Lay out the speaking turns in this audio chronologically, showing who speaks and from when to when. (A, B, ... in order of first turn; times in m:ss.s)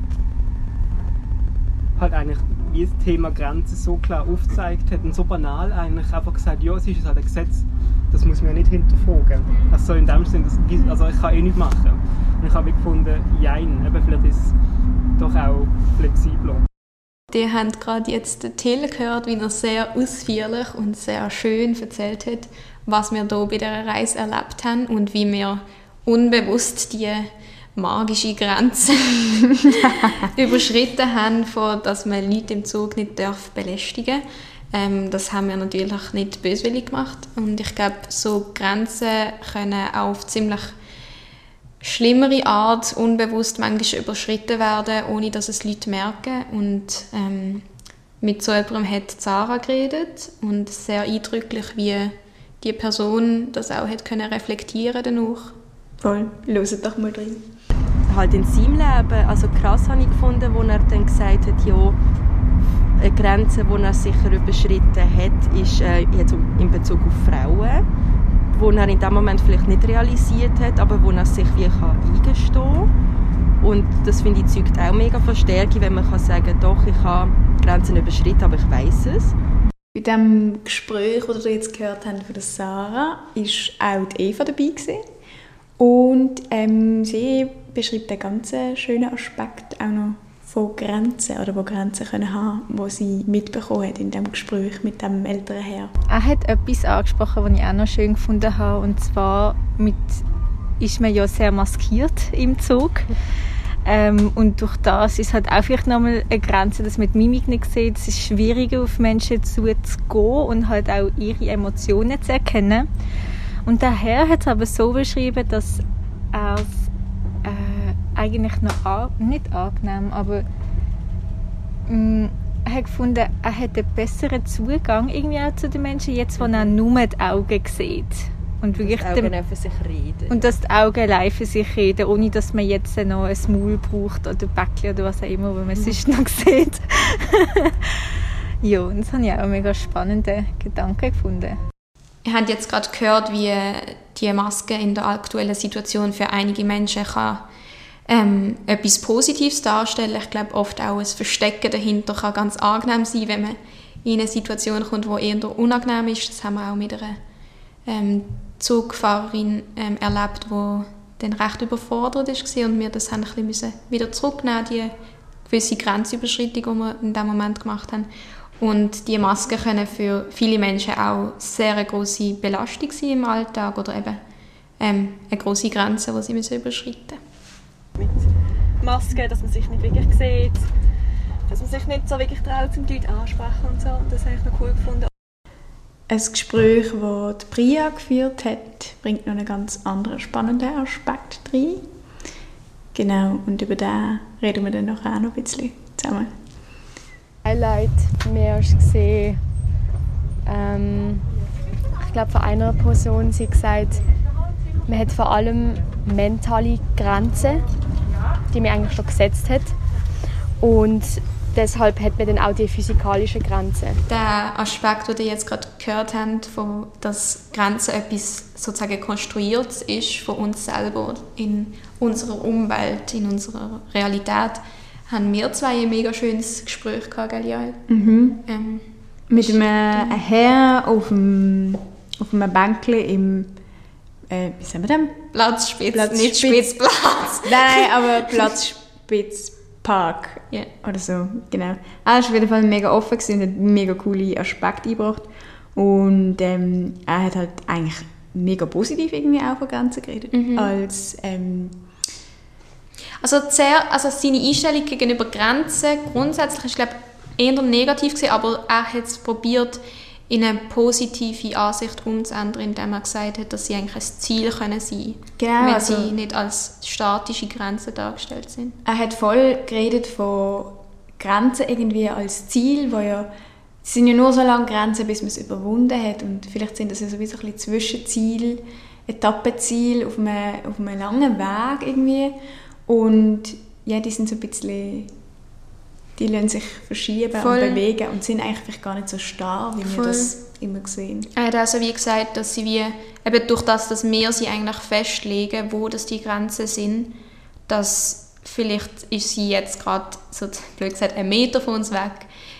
0:02.0-0:14.5 A
0:15.2-0:16.6 A
0:17.3-0:40.8 B
0:29.8-0:30.3 C
0:41.8-0:47.6 B
0:48.2-0:55.6 B
0:56.0-0:57.5 C
0:58.1-1:02.0 D
1:03.0-1:07.8 D
1:08.5-1:12.9 D
1:13.6-1:19.3 D
1:19.9-1:25.0 C
1:25.8-1:35.9 C
1:36.1-1:40.2 E
1:40.8-1:43.2 E
1:43.8-1:52.9 E
1:53.6-1:56.8 E
1:57.4-2:00.4 E
2:01.9-2:09.3 E
2:06.4-2:06.7 D
2:08.7-2:10.4 D
2:10.3-2:21.6 E
2:22.2-2:27.4 B
2:28.1-2:37.2 B
2:37.8-2:44.9 B
2:45.4-2:48.1 B
2:48.6-2:54.2 B
2:54.8-2:57.2 B
2:58.0-2:58.2 D
2:58.8-3:00.6 D
3:01.5-3:05.1 D
3:06.1-3:11.8 C
3:12.9-3:16.3 C
3:17.4-3:19.4 F
3:20.4-3:21.3 F
3:22.0-3:24.0 F
3:24.9-3:27.6 F
3:28.5-3:29.8 F
3:30.6-3:34.0 F
3:34.1-3:47.8 B
3:47.9-3:48.4 C
3:48.4-3:50.2 B
3:49.3-3:53.5 C
3:54.3-3:55.2 C
3:55.3-3:58.1 B
3:55.9-3:56.8 C
3:57.4-4:11.8 C
4:10.3-4:10.7 B
4:13.2-4:28.8 B
4:25.4-4:26.1 C
4:28.8-4:33.3 C
4:33.8-4:45.1 C
4:46.2-4:51.3 C
4:47.4-4:47.8 B
4:49.8-4:50.3 B
4:51.3-4:57.1 B
4:57.7-5:02.3 B